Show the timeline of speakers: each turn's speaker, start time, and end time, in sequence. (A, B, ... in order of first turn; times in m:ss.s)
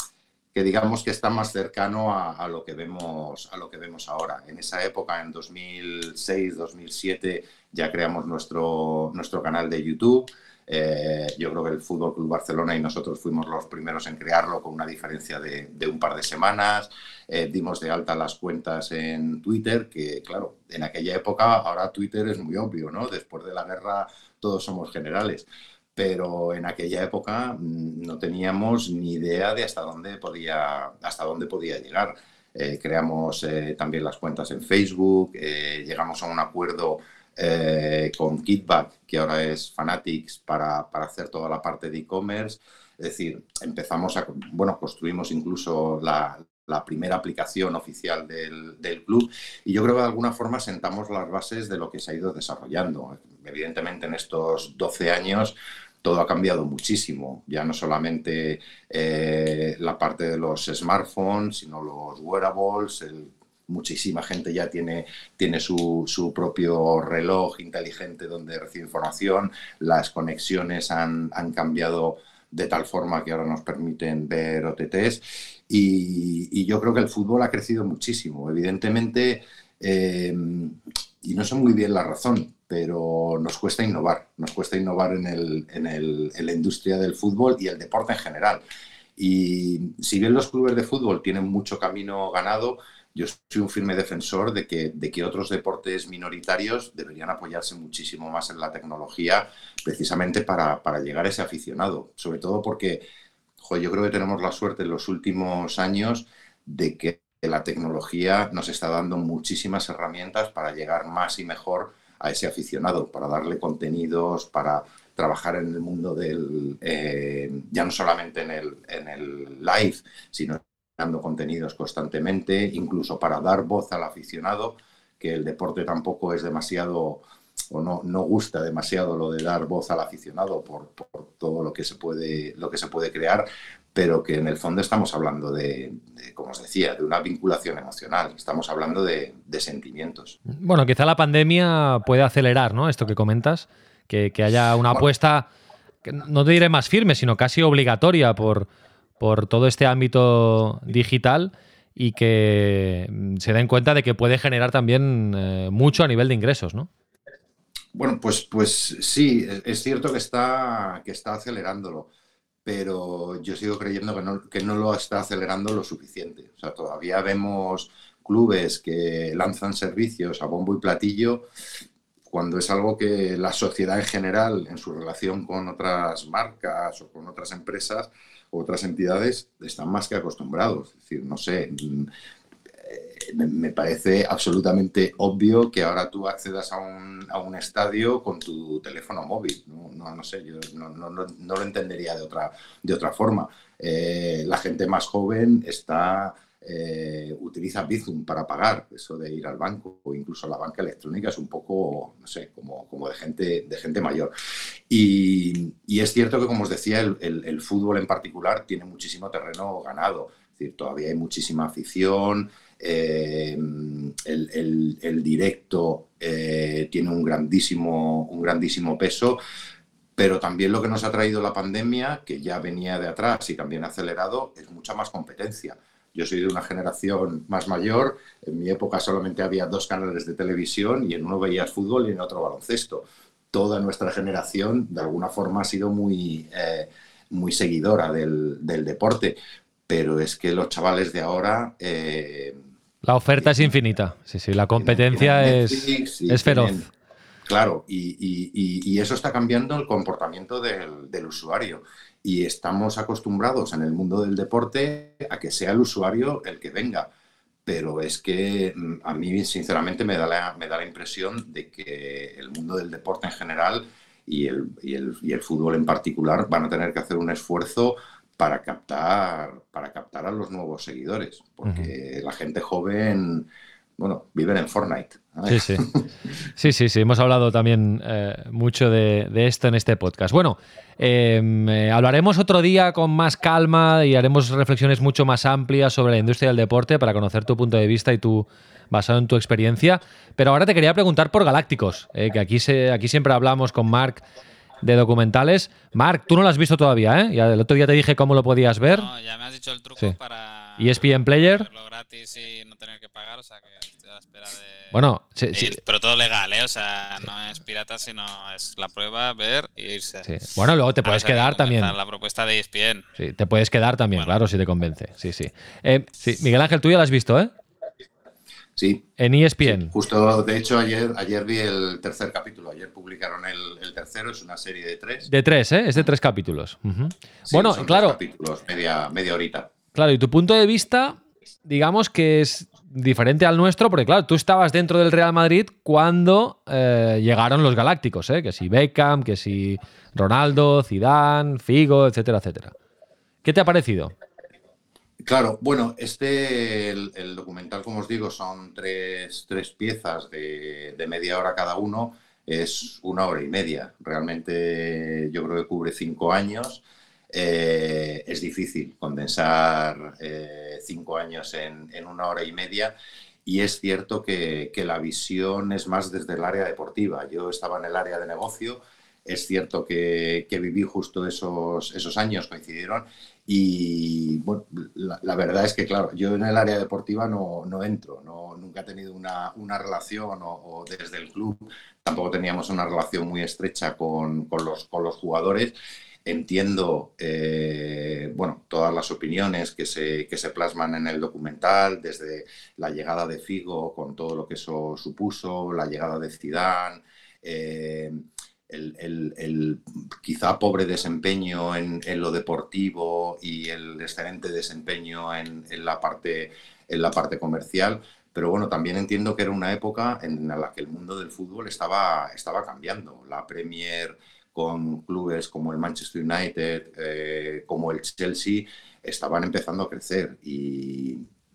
0:00.5-1:28.6 A
1:29.2-1:43.0 A
1:43.6-2:20.4 A
2:20.5-2:25.5 B
2:26.0-2:28.7 B
2:29.2-2:36.9 B
2:37.9-2:42.1 A
2:42.6-2:51.4 A
2:52.3-3:02.1 A
3:02.7-3:24.3 A
3:24.9-3:39.4 A
3:40.2-3:59.4 A
3:59.9-4:02.6 A
4:03.0-4:06.8 B
4:03.4-4:03.7 A
4:04.8-4:06.8 A
4:07.4-4:17.1 A
4:17.6-4:36.1 A
4:35.5-4:35.8 B
4:36.6-4:54.2 B
4:54.8-4:59.1 B
4:58.9-5:04.9 C
5:00.8-5:01.7 B
5:04.9-5:05.8 B
5:05.5-5:10.3 C
5:10.2-5:11.9 B
5:11.0-5:13.0 C
5:13.2-5:17.5 B
5:18.8-5:19.1 A
5:19.2-5:19.9 B
5:19.6-5:25.3 A
5:25.3-5:28.2 B
5:27.5-5:29.7 A
5:29.9-5:42.7 B
5:43.4-5:44.1 B
5:45.2-6:02.9 A
6:03.4-6:25.7 A
6:26.2-7:01.2 A